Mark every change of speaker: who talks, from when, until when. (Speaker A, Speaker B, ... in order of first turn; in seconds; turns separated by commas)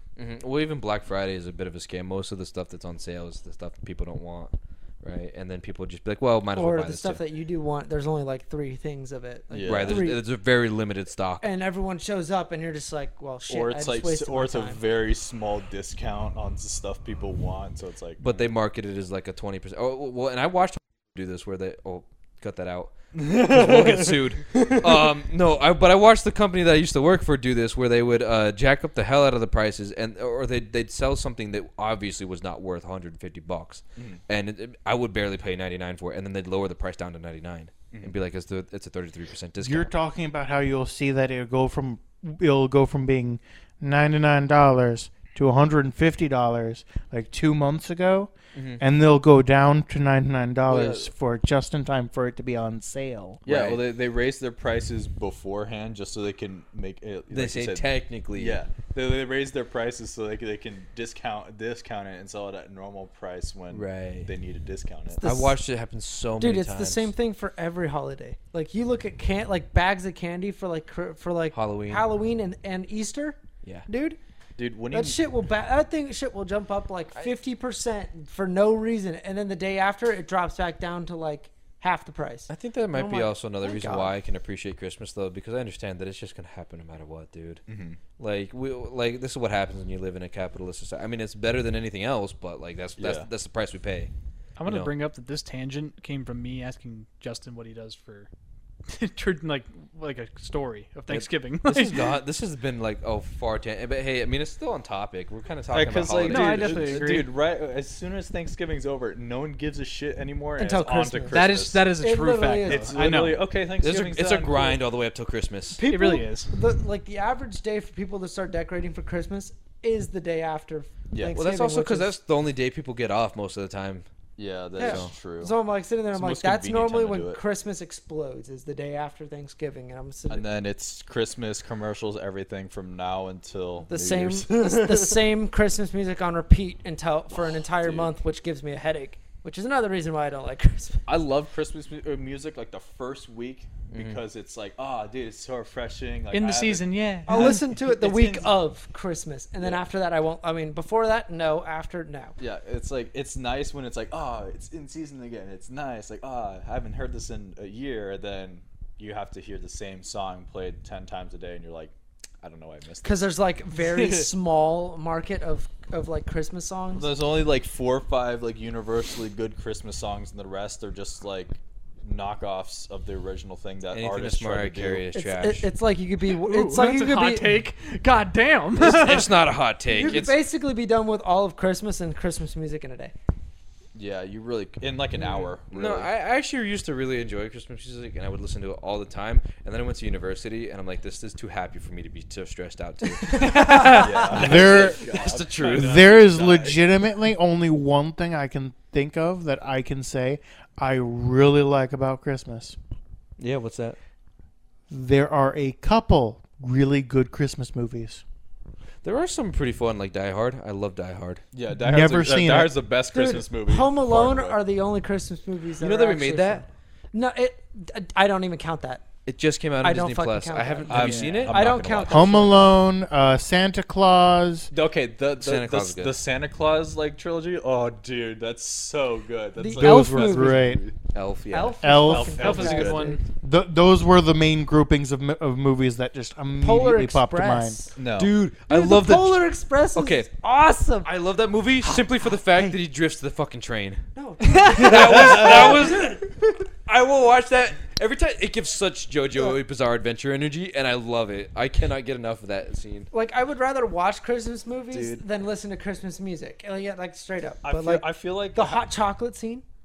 Speaker A: 0.1-7.2, Speaker B: 6.5-10.2, Speaker C: 9.5-10.1, Speaker A: 9.7-11.4, Speaker B: 11.4-14.8, Speaker C: 13.5-18.5, Speaker A: 18.2-39.9, Speaker C: 23.1-24.9, Speaker D: 39.6-53.4, Speaker A: 48.5-48.8, Speaker C: 50.7-51.1, Speaker A: 53.5-53.8, Speaker C: 53.5-65.2, Speaker A: 57.3-58.6, Speaker A: 63.7-64.3, Speaker B: 65.2-65.6, Speaker A: 65.2-67.1, Speaker B: 66.4-74.2, Speaker A: 71.5-72.0, Speaker C: 74.6-75.2, Speaker B: 74.9-84.1, Speaker A: 82.5-87.6, Speaker C: 87.7-88.0, Speaker A: 88.2-94.1, Speaker C: 93.0-93.3, Speaker E: 94.6-98.3, Speaker A: 94.6-94.9, Speaker E: 98.9-102.2, Speaker A: 101.1-107.2, Speaker C: 105.7-111.9, Speaker E: 106.2-107.3, Speaker B: 110.6-113.0, Speaker E: 111.3-113.4, Speaker C: 112.7-114.8, Speaker A: 113.8-115.8, Speaker B: 115.8-122.1, Speaker E: 115.8-116.6, Speaker C: 121.1-121.3, Speaker A: 121.3-124.0, Speaker C: 124.4-125.5, Speaker B: 124.8-130.4, Speaker A: 124.8-125.1, Speaker C: 126.1-127.4, Speaker C: 130.3-135.2, Speaker B: 133.9-141.0, Speaker C: 137.4-138.1, Speaker C: 141.1-148.5, Speaker A: 143.9-144.2, Speaker E: 146.3-147.6, Speaker B: 147.3-152.4, Speaker C: 152.4-163.3, Speaker B: 163.0-167.1, Speaker C: 164.0-164.2, Speaker C: 166.9-175.0, Speaker A: 173.9-175.7, Speaker B: 175.1-177.6, Speaker E: 176.3-179.4, Speaker A: 178.8-180.4, Speaker B: 179.9-183.1, Speaker C: 183.9-186.1, Speaker A: 185.7-196.1, Speaker E: 193.2-194.2, Speaker B: 193.3-194.1, Speaker C: 193.9-196.8, Speaker D: 194.3-195.1, Speaker D: 195.7-202.8, Speaker A: 203.4-204.0, Speaker D: 204.9-208.2, Speaker A: 209.0-211.4, Speaker C: 211.5-214.6, Speaker D: 211.7-212.7, Speaker B: 213.1-219.0, Speaker A: 215.8-216.7, Speaker A: 219.2-222.1, Speaker B: 219.8-222.7, Speaker C: 220.9-222.7, Speaker E: 221.1-221.5, Speaker D: 222.1-224.7, Speaker C: 224.7-230.9, Speaker A: 225.4-226.2, Speaker B: 229.6-230.7, Speaker D: 229.8-230.8, Speaker A: 231.1-231.8, Speaker B: 231.5-233.2, Speaker D: 231.8-232.5, Speaker C: 232.1-233.1, Speaker E: 232.4-233.2, Speaker D: 233.4-237.8, Speaker B: 236.6-237.9, Speaker C: 237.9-238.3, Speaker A: 238.1-240.3, Speaker B: 238.7-241.1, Speaker A: 241.0-244.1, Speaker B: 241.8-242.8, Speaker B: 244.1-246.5, Speaker A: 244.7-246.2, Speaker C: 244.7-245.9, Speaker A: 246.8-253.1, Speaker B: 253.1-259.6, Speaker C: 254.9-255.2, Speaker C: 257.6-258.8